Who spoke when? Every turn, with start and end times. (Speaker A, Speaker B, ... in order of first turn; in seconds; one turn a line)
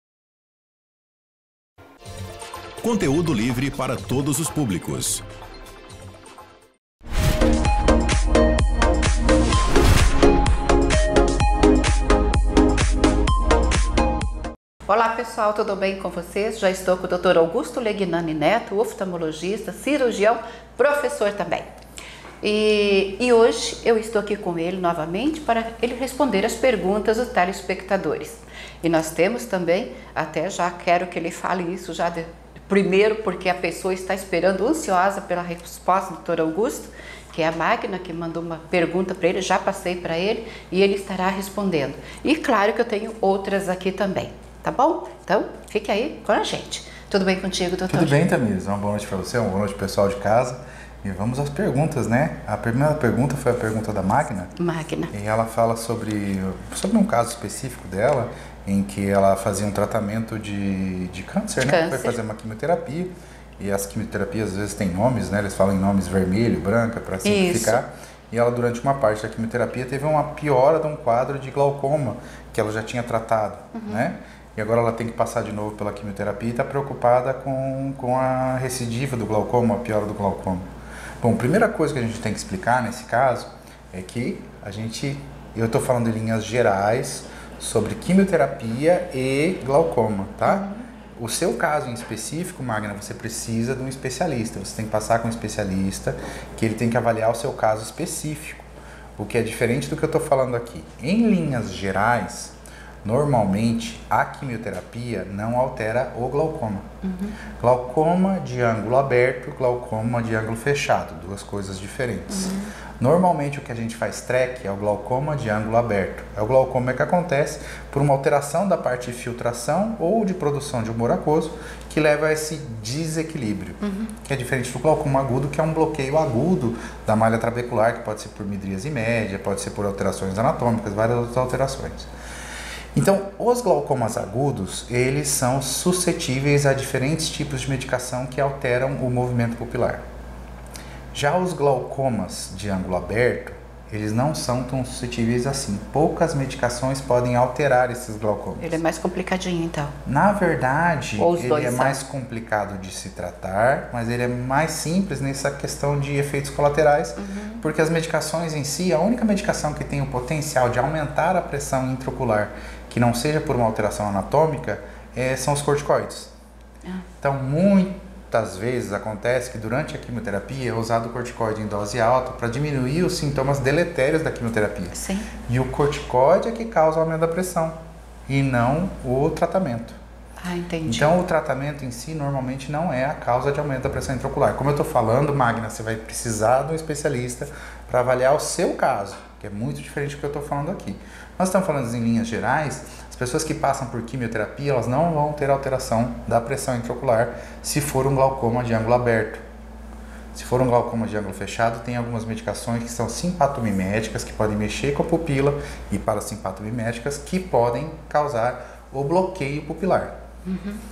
Speaker A: 2.8-5.2
Speaker B: 14.9-21.7
Speaker B: 22.4-48.2
Speaker C: 47.9-54.5
Speaker B: 54.5-55.1
Speaker C: 55.1-80.7
Speaker B: 61.6-62.2
Speaker B: 67.2-67.8
Speaker B: 73.7-74.1
Speaker C: 81.2-106.8
Speaker B: 90.5-90.8
Speaker B: 107.0-107.3
Speaker C: 107.6-132.1
Speaker B: 112.3-112.7
Speaker B: 123.8-124.1
Speaker C: 132.9-140.0
Speaker C: 141.1-148.8
Speaker B: 148.6-149.9
Speaker C: 150.1-166.3
Speaker B: 151.2-152.0
Speaker B: 157.2-157.6
Speaker C: 167.2-177.8
Speaker B: 174.9-175.3
Speaker C: 178.3-180.0
Speaker B: 180.4-181.2
Speaker C: 180.8-199.4
Speaker C: 200.3-210.1
Speaker B: 210.4-210.8